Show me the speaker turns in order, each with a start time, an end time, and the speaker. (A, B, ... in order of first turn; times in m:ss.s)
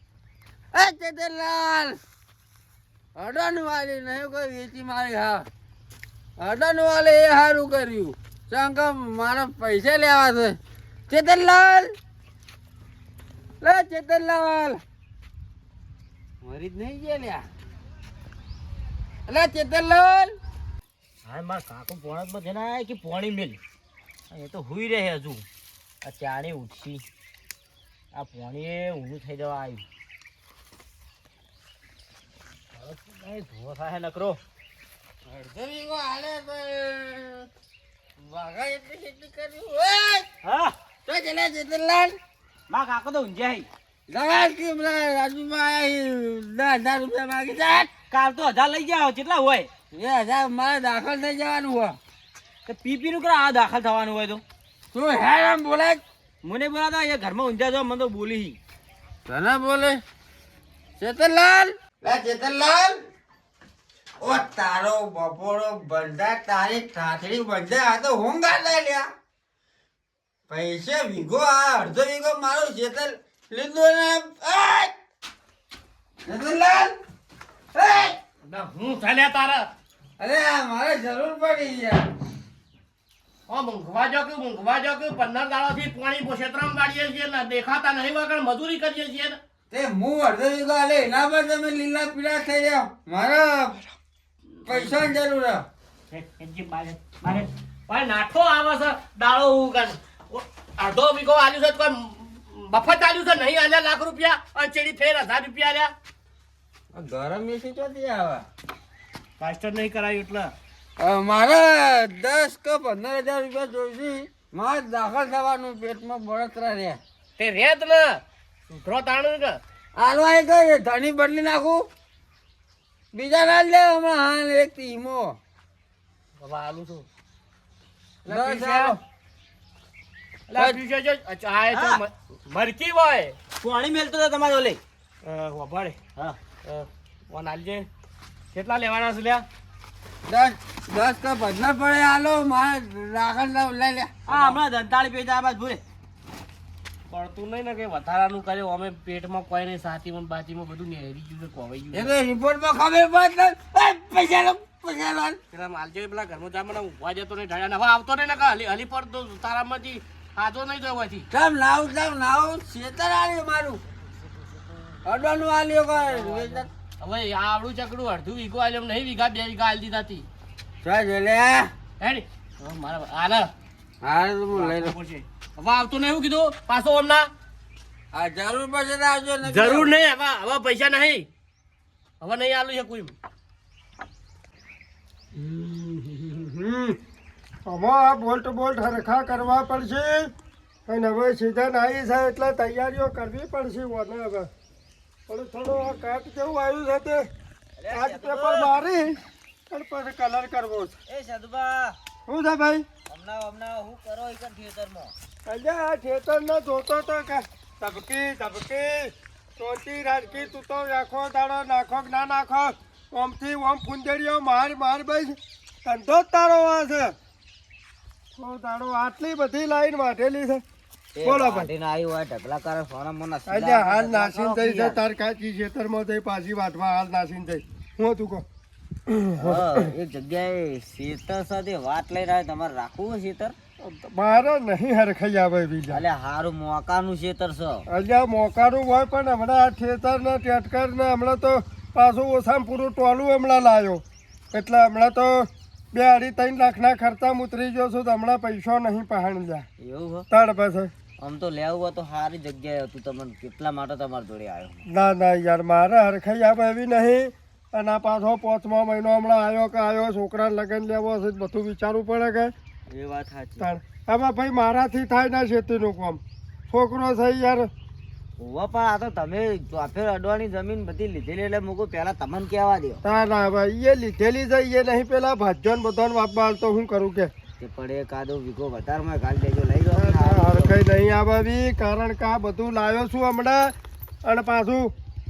0:00.7-0:02.0 A
0:03.2-0:05.4 A
0:06.4-0:10.6 A
0:11.1-0:11.9 A
0:13.6-0:14.8 A
0:16.4-0:17.4 A
0:19.3-0:20.4 A
0:21.2-0:23.6 B
0:24.3-0:25.4 B
0:26.0-0:27.0 B
0:28.1-0:29.8 B
0:32.8-0:34.4 B
0:35.2-0:37.5 A
0:38.2-0:40.3 A
0:40.4-0:40.7 B
0:41.0-0:42.2 A
0:42.7-0:43.7 B
0:44.1-0:47.9 A
0:48.1-0:49.7 B
0:49.9-0:52.0 A
0:52.6-0:54.4 B
0:54.9-0:56.0 A
0:56.4-0:58.6 B
0:59.2-1:00.0 A
1:01.0-1:03.0 A
1:04.2-1:09.1 A
1:10.5-1:14.9 A
1:16.2-1:17.0 A
1:17.7-1:18.2 A
1:18.5-1:19.7 C
1:20.2-1:22.1 A
1:23.5-1:29.4 C
1:29.7-1:33.8 A
1:34.6-1:35.1 C
1:34.6-1:35.6 A
1:36.1-1:45.9 C
1:46.9-1:48.4 A
1:49.4-1:50.5 C
1:51.0-1:57.0 A
1:57.4-1:59.6 C
2:00.0-2:01.9 A
2:03.1-2:05.4 A
2:06.4-2:07.1 C
2:08.2-2:09.0 C
2:08.3-2:09.0 A
2:10.5-2:13.4 C
2:11.7-2:12.0 B
2:13.6-2:14.8 B
2:15.2-2:16.0 C
2:16.6-2:17.9 C
2:18.5-2:19.4 C
2:20.3-2:24.1 A
2:24.2-2:25.8 B
2:27.1-2:32.1 C
2:31.9-2:35.4 A
2:35.5-2:41.3 C
2:41.3-2:43.8 A
2:45.0-2:46.7 A
2:46.0-2:50.2 C
2:50.8-2:51.7 A
2:52.0-2:53.5 C
2:54.0-2:54.9 A
2:54.5-2:57.3 C
2:58.1-2:59.9 A
2:59.4-3:01.2 C
3:02.2-3:03.1 C
3:05.3-3:07.0 D
3:07.6-3:10.3 D
3:10.9-3:14.5 D
3:15.3-3:17.3 D
3:17.8-3:18.9 B
3:17.9-3:20.9 D
3:21.1-3:22.0 B
3:22.3-3:22.8 D
3:23.0-3:25.1 B
3:25.4-3:37.1 D
3:38.4-3:40.6 D
3:41.1-3:45.0 B
3:41.2-3:41.7 D
3:43.4-3:48.4 D
3:49.1-3:49.6 D
3:49.4-3:53.5 B
3:53.8-3:56.0 D
3:55.9-3:57.8 B
3:57.9-4:09.7 D
4:09.8-4:10.3 B
4:10.3-4:10.9 D
4:11.2-4:14.8 B
4:14.8-4:22.5 D
4:22.9-4:23.7 B
4:23.6-4:27.7 D
4:28.4-4:33.0 B
4:33.0-4:37.3 D
4:37.6-4:40.8 B
4:39.9-4:44.9 D